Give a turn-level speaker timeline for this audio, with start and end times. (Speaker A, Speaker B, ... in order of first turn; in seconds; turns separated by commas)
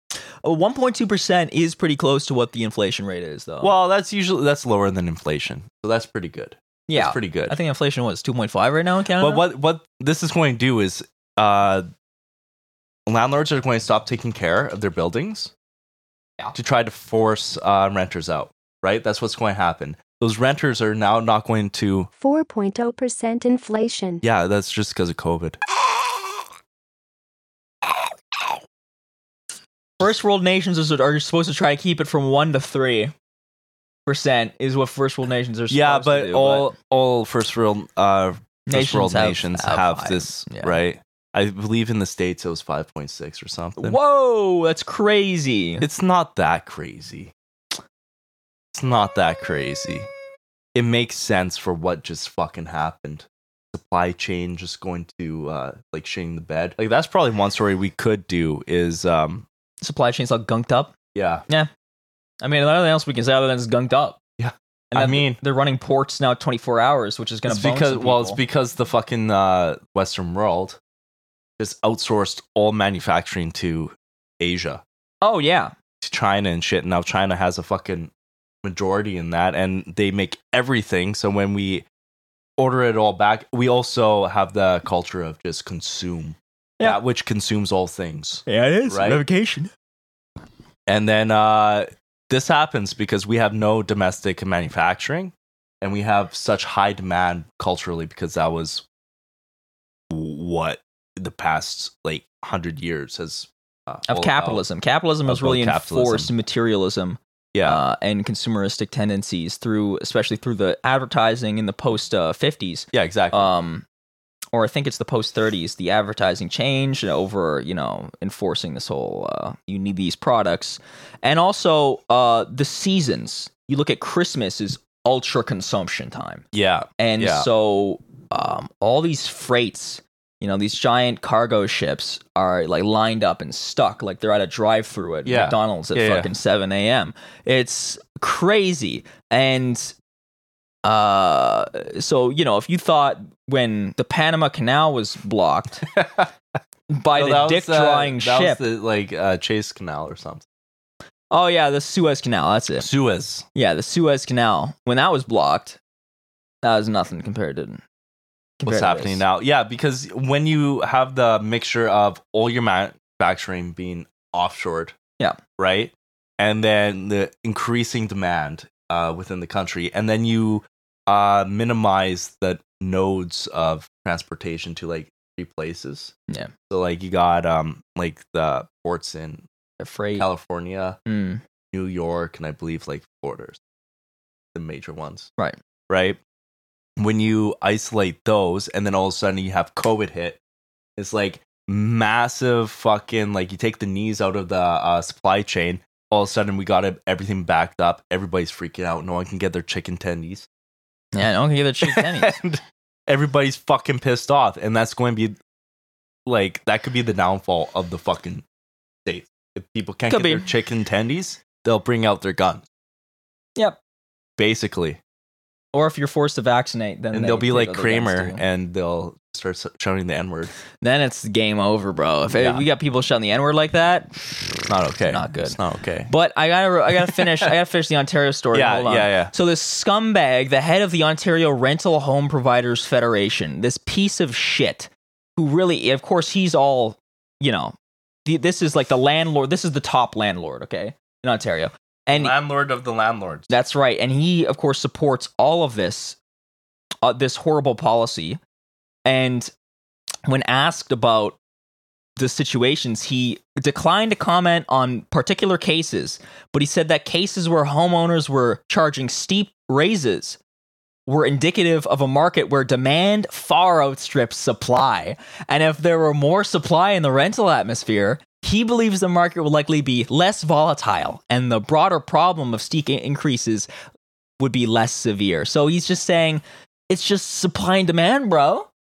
Speaker A: 0.4-3.7, Speaker B: 3.6-7.5, Speaker A: 6.9-9.4, Speaker B: 9.2-11.8, Speaker B: 13.1-15.5, Speaker B: 16.5-22.1, Speaker C: 22.2-24.2, Speaker B: 24.2-25.6, Speaker A: 30.0-33.1, Speaker A: 34.0-36.7, Speaker B: 35.7-44.0, Speaker A: 38.7-40.8, Speaker A: 43.8-45.9, Speaker B: 45.8-47.3, Speaker B: 48.7-50.1, Speaker B: 50.7-59.5, Speaker A: 59.8-60.9, Speaker B: 61.1-61.4, Speaker A: 62.4-64.2, Speaker B: 64.4-65.4, Speaker A: 64.9-68.4, Speaker B: 67.5-70.8, Speaker B: 71.6-74.8, Speaker A: 75.2-75.7, Speaker B: 76.0-78.1, Speaker B: 78.6-81.8, Speaker B: 82.6-89.2, Speaker A: 88.5-89.7, Speaker B: 90.9-98.8, Speaker B: 100.1-104.6, Speaker A: 104.1-113.8, Speaker B: 105.3-106.3, Speaker B: 107.5-107.8, Speaker B: 112.9-113.5, Speaker A: 114.5-126.4, Speaker B: 126.5-127.5, Speaker A: 127.0-139.9, Speaker B: 135.2-136.3, Speaker A: 140.8-145.9, Speaker B: 145.9-146.3, Speaker A: 146.9-148.6, Speaker B: 147.1-150.4, Speaker A: 151.3-152.9, Speaker B: 152.8-153.4, Speaker A: 153.5-155.8, Speaker A: 156.6-157.8, Speaker A: 158.6-159.2, Speaker B: 158.6-164.9, Speaker B: 165.6-176.1, Speaker B: 176.7-179.4, Speaker A: 179.8-180.2, Speaker B: 180.2-181.0, Speaker A: 181.1-181.4, Speaker B: 181.7-183.6, Speaker B: 184.5-185.3, Speaker B: 185.9-186.2, Speaker B: 187.0-190.4, Speaker B: 191.0-200.5, Speaker A: 201.1-202.4, Speaker B: 201.8-205.4, Speaker B: 206.2-208.4, Speaker B: 209.1-212.6, Speaker A: 210.1-210.5, Speaker B: 214.4-215.0, Speaker A: 215.7-218.4, Speaker B: 217.1-220.5, Speaker A: 220.8-225.6, Speaker B: 222.3-222.7, Speaker B: 224.7-226.1, Speaker A: 226.1-237.7, Speaker B: 227.0-227.5, Speaker B: 228.5-229.3, Speaker A: 238.2-242.3, Speaker B: 242.1-243.5, Speaker A: 243.5-246.2, Speaker A: 247.0-248.4, Speaker A: 249.1-249.5, Speaker A: 250.3-251.4, Speaker A: 252.2-260.4, Speaker A: 261.1-273.7, Speaker A: 274.4-278.7